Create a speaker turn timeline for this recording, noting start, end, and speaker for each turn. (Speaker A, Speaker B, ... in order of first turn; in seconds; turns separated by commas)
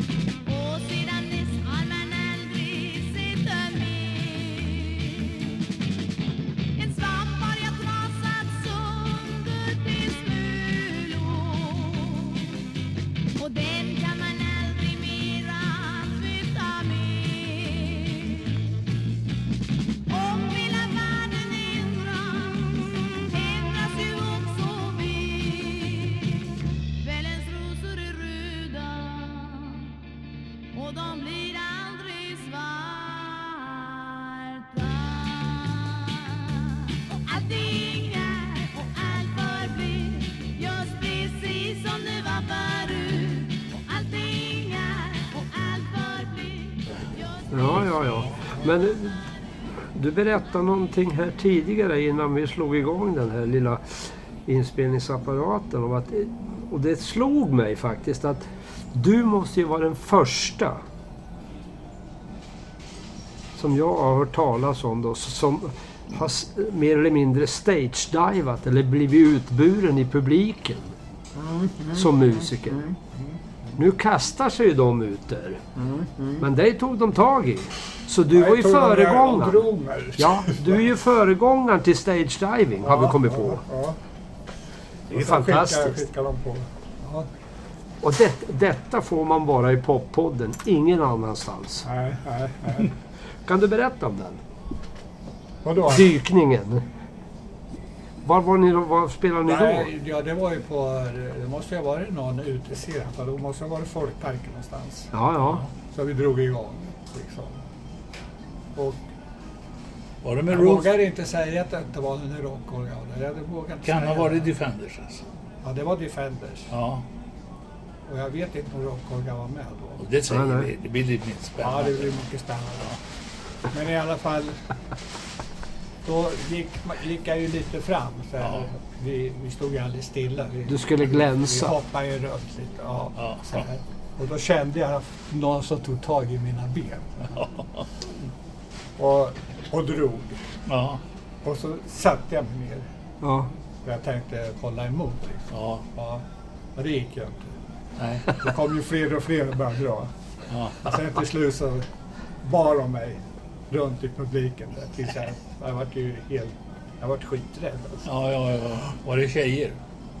Speaker A: 0.4-5.5, Speaker A: 6.7-12.6, Speaker A: 13.4-18.6, Speaker A: 20.1-29.9, Speaker A: 30.7-47.6, Speaker B: 47.5-49.2, Speaker B: 49.8-60.8, Speaker B: 63.5-70.9, Speaker C: 71.3-73.8, Speaker B: 71.9-72.8, Speaker B: 73.8-75.6, Speaker C: 75.8-76.4, Speaker B: 76.4-83.6, Speaker C: 78.3-80.9, Speaker C: 82.8-84.0, Speaker B: 85.1-86.0, Speaker C: 85.1-87.3, Speaker B: 88.0-91.8, Speaker C: 91.8-92.9, Speaker B: 93.5-94.4, Speaker C: 95.6-96.1, Speaker B: 95.9-96.8, Speaker B: 98.2-99.9, Speaker C: 99.4-105.1, Speaker B: 105.1-105.6, Speaker D: 105.4-105.7, Speaker C: 105.9-107.6, Speaker C: 108.7-109.0, Speaker D: 110.2-111.0, Speaker C: 110.5-114.5, Speaker D: 113.8-115.2, Speaker C: 115.6-116.7, Speaker D: 116.7-117.0, Speaker C: 118.1-120.0, Speaker D: 120.0-122.2, Speaker B: 120.3-120.7, Speaker C: 121.6-123.0, Speaker C: 123.7-124.6, Speaker C: 126.0-137.4, Speaker B: 130.7-131.8, Speaker D: 133.2-133.6, Speaker C: 139.0-140.4, Speaker D: 140.7-141.0, Speaker C: 141.4-142.8, Speaker B: 143.2-143.5, Speaker C: 143.8-146.2, Speaker D: 145.5-145.8, Speaker C: 146.8-147.5, Speaker D: 148.0-148.5, Speaker C: 148.3-150.1, Speaker D: 150.5-150.9, Speaker C: 150.8-151.9, Speaker C: 152.4-158.1, Speaker D: 158.0-159.8